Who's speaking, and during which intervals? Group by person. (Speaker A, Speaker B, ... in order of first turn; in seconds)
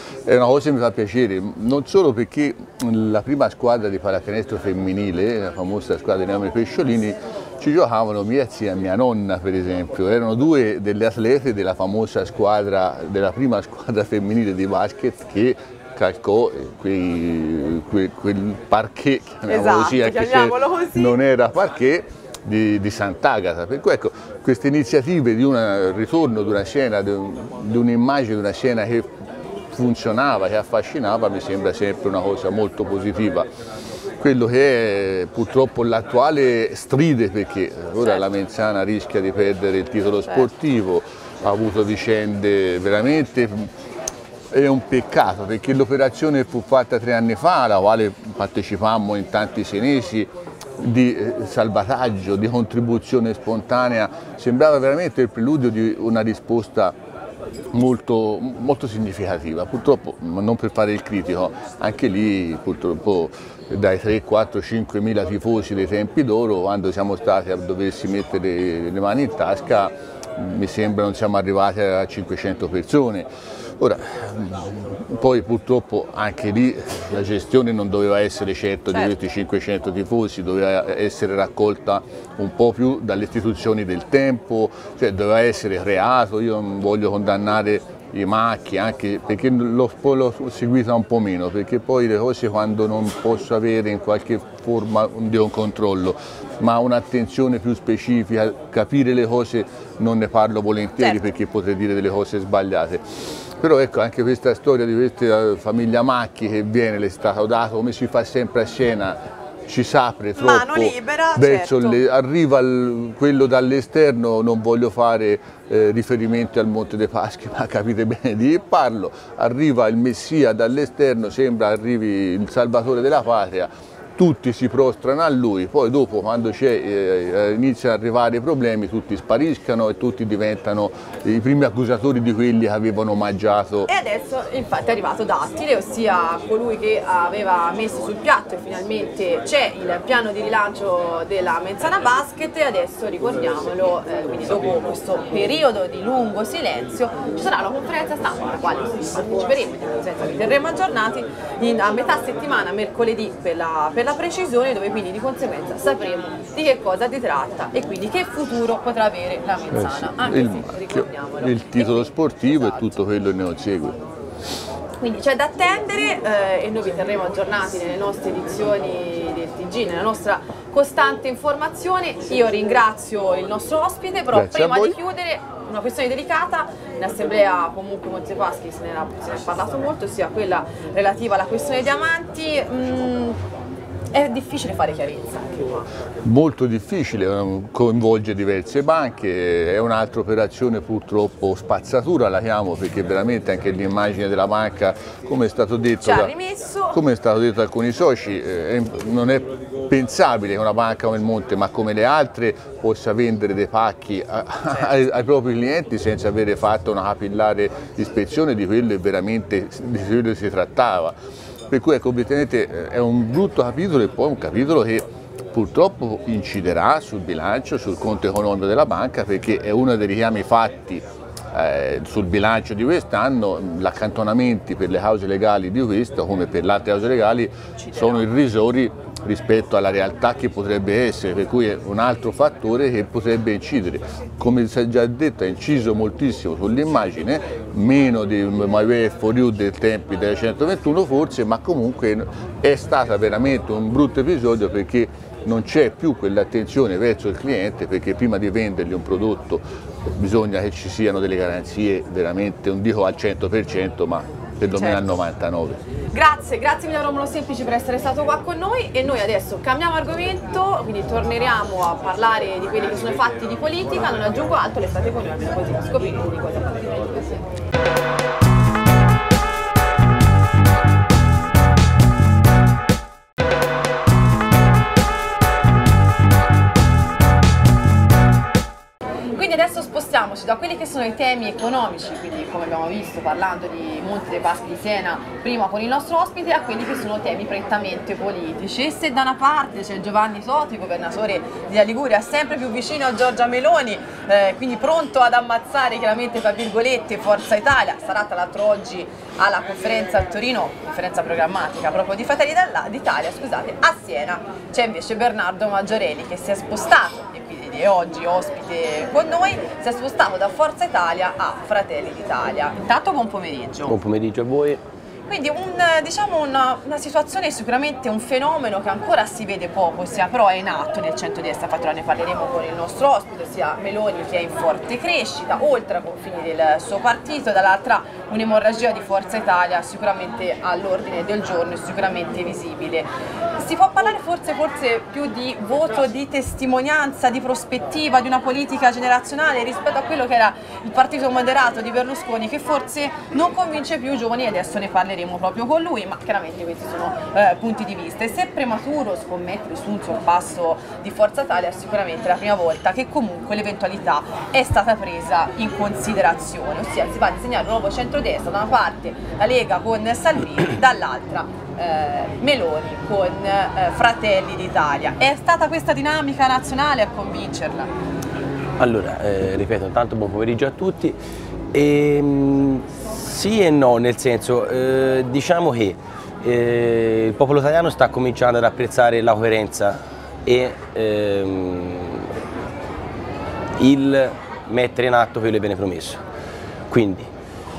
Speaker A: 0.3-29.2, 29.7-33.5, 34.2-43.7, 44.5-57.0, 57.7-103.1, 103.6-133.9, 159.7-164.0, 174.3-175.0, 186.2-196.3, 196.9-211.2, 211.7-255.8
Speaker B: 19.5-21.2, 78.9-79.2, 110.4-112.0, 133.9-163.0, 165.0-183.4, 184.1-185.9, 196.0-197.0, 227.8-228.2, 254.7-255.2, 256.1-267.4, 279.3-313.9, 315.3-367.9
Speaker C: 313.9-314.8, 368.8-371.2, 371.7-382.3, 383.8-386.2, 386.9-387.3